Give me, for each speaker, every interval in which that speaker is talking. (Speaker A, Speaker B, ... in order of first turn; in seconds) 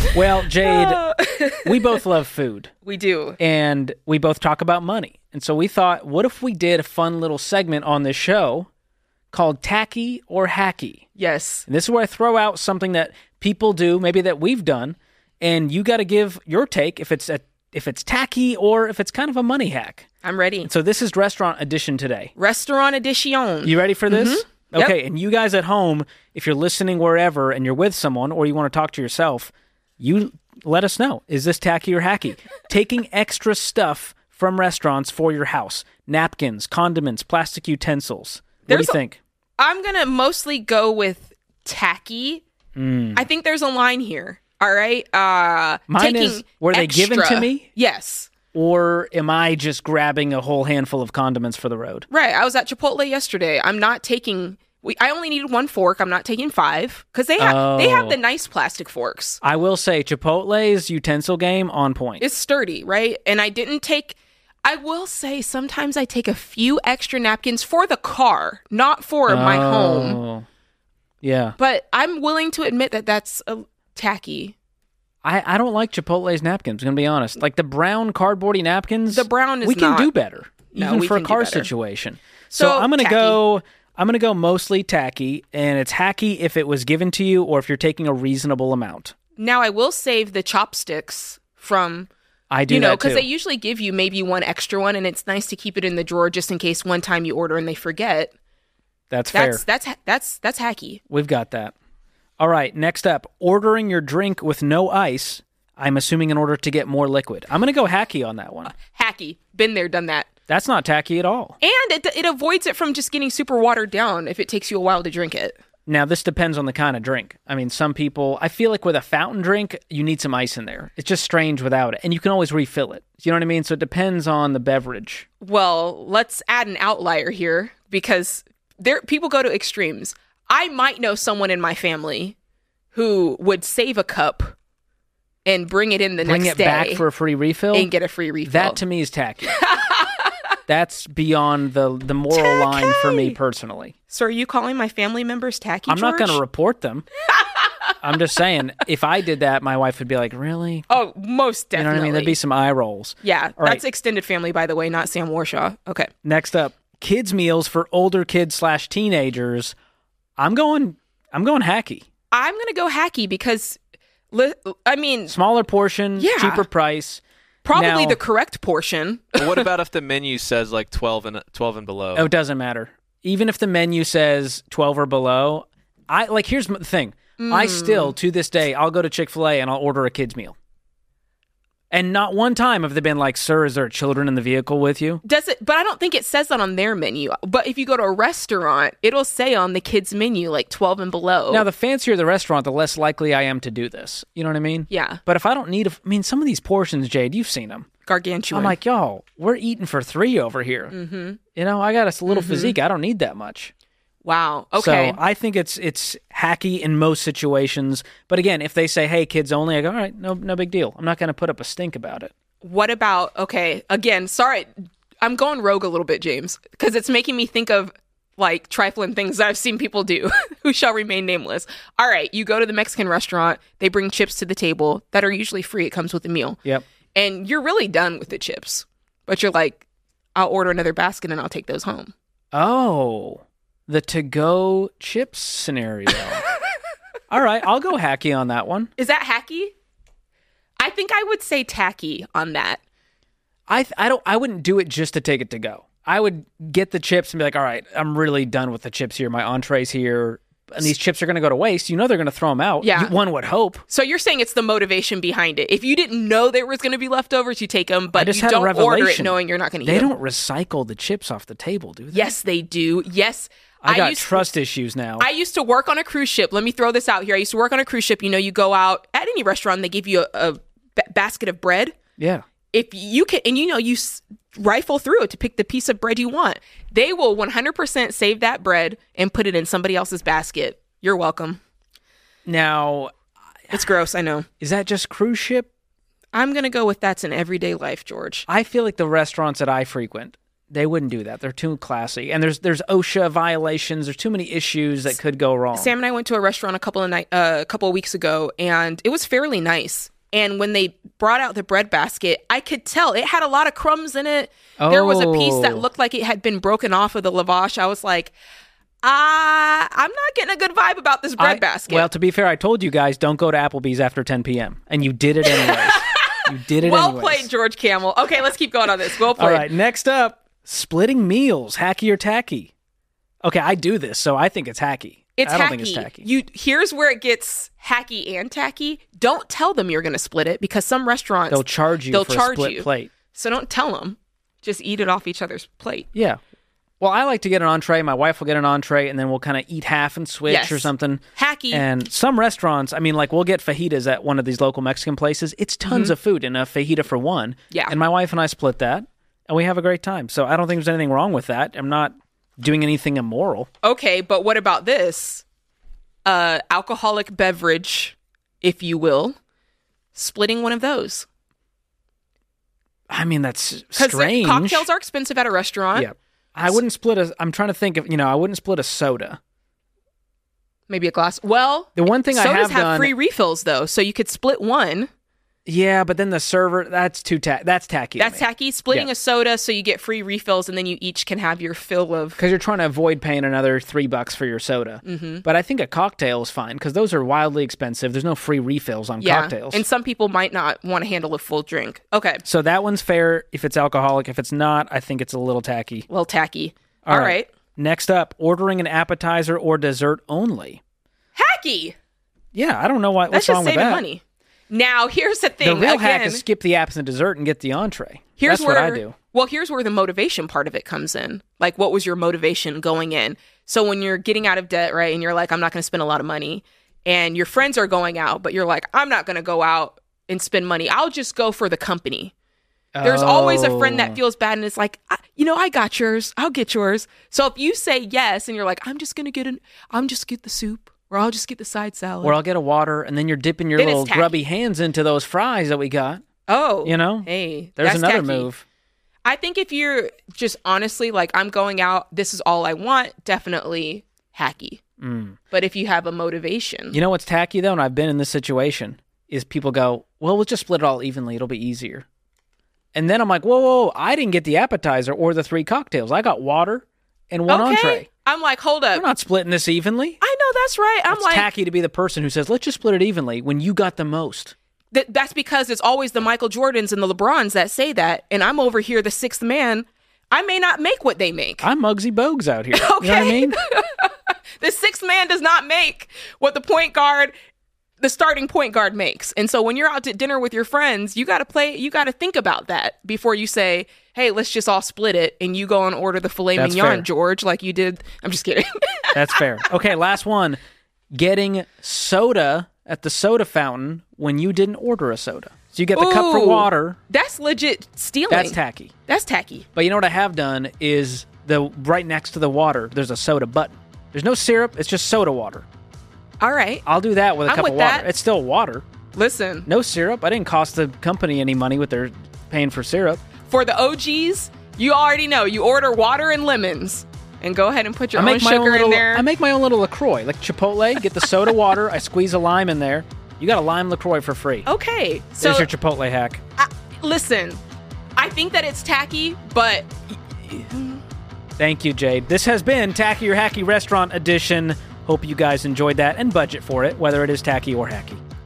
Speaker A: 0.1-1.1, 1.6-2.7, 3.4-8.7, 9.3-11.1, 11.7-20.1, 20.6-22.3, 23.6-39.2, 42.8-43.3, 45.9-47.7, 48.5-52.1, 57.4-58.2, 59.4-62.2, 69.3-70.5, 71.2-71.6, 75.2-89.2, 92.5-93.3, 99.1-99.6, 101.1-101.7, 102.4-108.7, 110.5-111.6, 115.9-125.3, 136.2-137.9, 138.4-139.6, 140.7-143.9, 145.9-147.1, 148.0-150.9, 151.8-153.8, 156.2-159.8, 160.4-162.1, 165.3-168.2, 172.1-180.6, 181.9-185.2, 191.5-197.9, 198.5-200.9, 201.6-203.7, 204.8-212.3, 232.5-236.4, 237.3-238.9, 243.7-253.8, 258.1-262.3, 263.8-265.3, 272.2-272.4, 282.5-283.1, 284.6-285.7, 288.5-295.9, 304.8-305.9, 311.4-317.5, 319.3-322.7, 323.4-326.3, 331.5-333.1, 336.1-336.4, 337.0-353.7, 363.1-364.9, 365.9-369.4, 372.0-373.1, 375.7-379.1, 382.4-389.8, 392.4-396.1, 397.1-400.8, 402.5-404.1, 405.6-409.2, 422.9-424.2, 432.2-436.2, 436.8-438.6, 445.0-445.4, 446.9-452.1, 452.9-458.1, 458.9-460.2, 461.1-464.5, 471.6-473.6, 486.6-487.1, 489.1-490.6, 491.1-497.0, 498.3-498.9, 499.8-505.7, 506.9-508.9, 509.7-513.2, 518.1-524.7, 525.4-526.4, 531.6-538.2
Speaker B: 0.6-2.0, 2.9-3.4, 11.2-11.7, 20.2-20.7, 22.4-24.9, 38.7-39.0, 39.6-42.4, 43.1-48.3, 52.1-59.4, 62.2-70.2, 71.6-74.5, 79.1-80.1, 80.7-81.7, 82.5-83.4, 89.4-92.1, 92.7-98.3, 99.3-101.0, 108.8-110.3, 111.6-115.6, 125.4-132.4, 132.9-134.6, 135.5-137.1, 137.7-138.8, 139.5-140.3, 142.3-143.4, 144.1-146.4, 147.3-147.9, 150.9-152.4, 153.2-156.1, 162.3-163.8, 164.3-165.4, 166.2-166.7, 167.7-169.7, 177.4-178.1, 185.2-191.7, 194.9-195.2, 198.1-198.8, 200.9-201.4, 202.3-202.8, 204.2-205.2, 212.6-226.6, 227.2-229.8, 230.3-232.1, 239.0-239.7, 240.8-242.8, 252.8-253.2, 253.9-260.1, 262.1-264.5, 265.2-272.0, 272.7-281.6, 283.7-284.5, 286.3-288.5, 295.7-308.3, 309.0-312.1, 315.5-319.7, 325.4-336.1, 340.5-341.9, 345.9-346.1, 347.7-348.0, 353.8-355.4, 356.2-359.4, 360.1-361.3, 364.0-366.1, 370.9-375.1, 378.2-382.4, 385.1-385.4, 389.2-392.4, 396.1-397.5, 401.4-401.9, 403.3-406.4, 408.4-422.3, 423.0-432.4, 433.8-434.4, 436.5-438.5, 439.2-444.8, 445.5-447.0, 457.5-459.1, 460.2-461.5, 464.9-471.6, 472.7-477.3, 478.0-489.6, 495.9-499.7, 506.4-506.9, 507.5-508.1, 509.1-509.7, 513.5-519.3, 524.7-525.7, 526.6-527.6, 528.2-531.0
Speaker C: 169.4-172.3